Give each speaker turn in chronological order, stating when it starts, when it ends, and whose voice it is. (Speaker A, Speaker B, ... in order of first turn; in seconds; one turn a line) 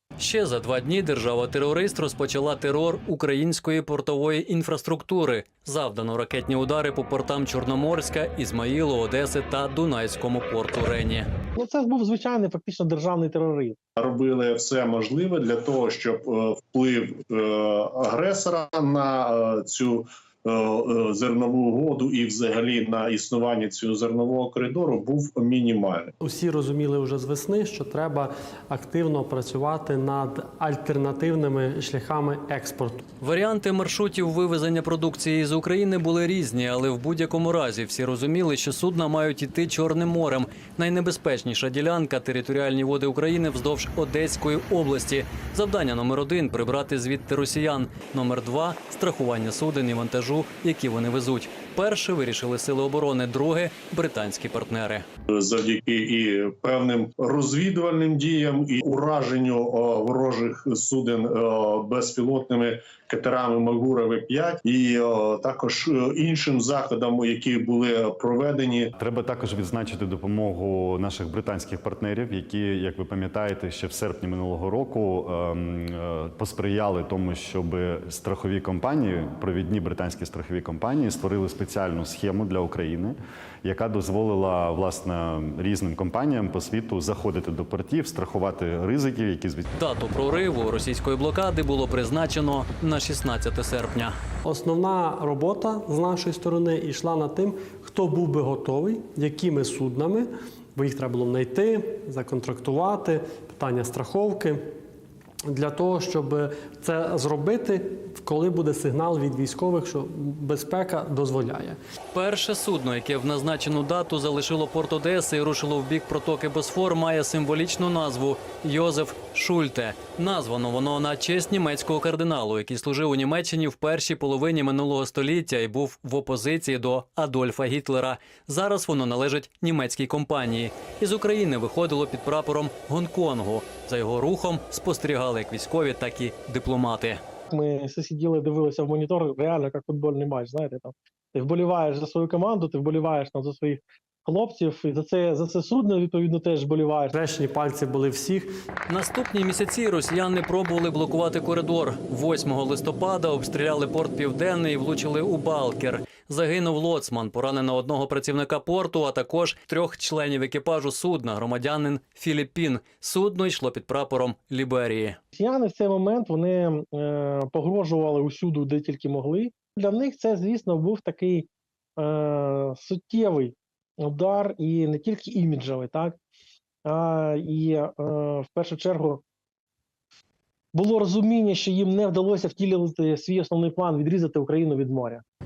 Speaker A: 0.2-11.3
Speaker B: 11.5-13.8
Speaker C: 14.0-26.1
Speaker D: 26.2-33.0
Speaker A: 33.2-55.0
Speaker C: 55.3-68.9
Speaker E: 69.0-89.7
Speaker A: 89.8-94.1
Speaker D: 94.4-104.6
Speaker D: 105.5-111.8
Speaker A: 112.1-137.2
Speaker B: 137.5-147.2
Speaker D: 147.1-148.5
Speaker A: 148.9-165.2
Speaker B: 165.3-176.1
Speaker B: 176.8-179.2
Speaker B: 180.7-185.2